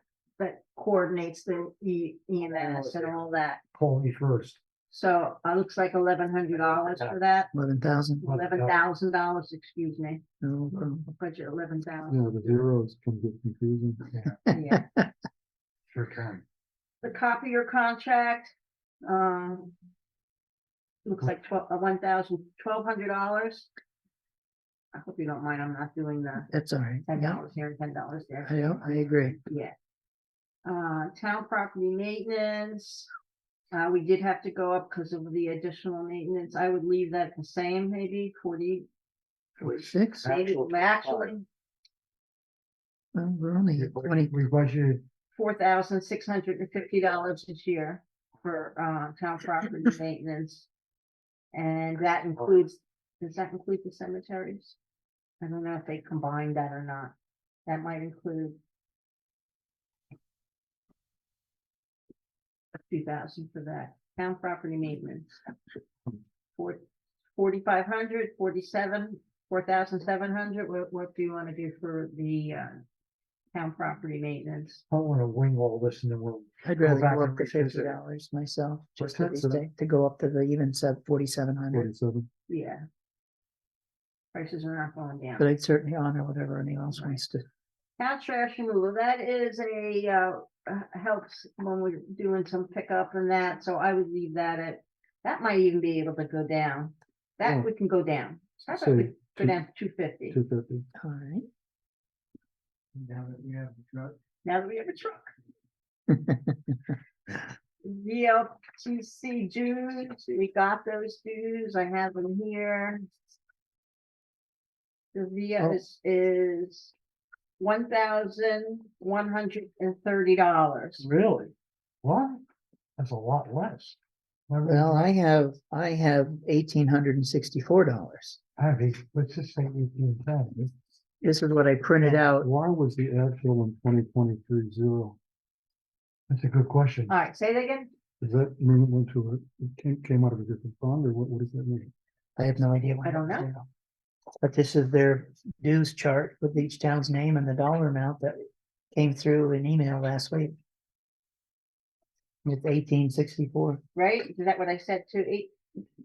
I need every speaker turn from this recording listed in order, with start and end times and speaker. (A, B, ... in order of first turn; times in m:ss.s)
0:00.4-0:03.6 A
0:02.5-0:03.1 B
0:03.8-0:04.6 B
0:04.9-0:07.5 A
0:07.5-0:08.2 C
0:08.2-0:10.2 A
0:08.2-0:08.8 B
0:10.4-0:11.1 C
0:11.1-0:12.3 A
0:12.1-0:14.2 D
0:14.1-0:14.4 B
0:14.5-0:14.9 A
0:14.7-0:15.1 C
0:15.9-0:16.4 B
0:17.0-0:18.5 A
0:19.0-0:19.8 A
0:21.0-0:23.7 A
0:24.9-0:26.5 A
0:26.5-0:27.4 C
0:27.1-0:29.7 A
0:28.5-0:29.4 C
0:30.6-0:33.1 A
0:33.7-0:38.9 A
0:39.6-0:40.3 C
0:39.6-0:41.3 B
0:40.2-0:41.5 A
0:43.2-0:44.4 C
0:43.7-0:45.0 B
0:45.4-0:50.7 A
0:51.5-0:54.8 A
0:55.4-0:57.2 A
0:57.7-0:58.6 A
1:02.9-1:05.4 A
1:06.6-1:06.8 A
1:07.4-1:12.8 A
1:13.5-1:14.8 A
1:14.9-1:18.0 B
1:16.6-1:21.9 C
1:19.0-1:19.6 B
1:21.7-1:22.3 D
1:22.5-1:22.8 A
1:24.3-1:25.5 A
1:25.4-1:27.4 C
1:26.9-1:27.2 A
1:28.0-1:40.4 A
1:37.4-1:37.7 D
1:38.7-1:39.6 D
1:40.3-1:40.9 D
1:41.0-1:41.5 C
1:43.0-1:44.2 B
1:44.4-1:45.3 A
1:46.1-1:46.6 C
1:47.8-1:53.1 A
1:55.1-1:56.9 A
1:57.6-2:01.1 A
2:01.0-2:02.4 B
2:03.0-2:04.0 B
2:04.5-2:05.1 B
2:04.6-2:08.4 C
2:08.6-2:10.7 B
2:11.2-2:12.5 C
2:12.0-2:15.2 D
2:16.3-2:17.1 B
2:17.1-2:17.9 A
2:18.2-2:21.9 D
2:22.4-2:23.7 C
2:23.0-2:23.5 A
2:24.4-2:30.6 C
2:32.4-2:33.8 C
2:34.0-2:35.5 A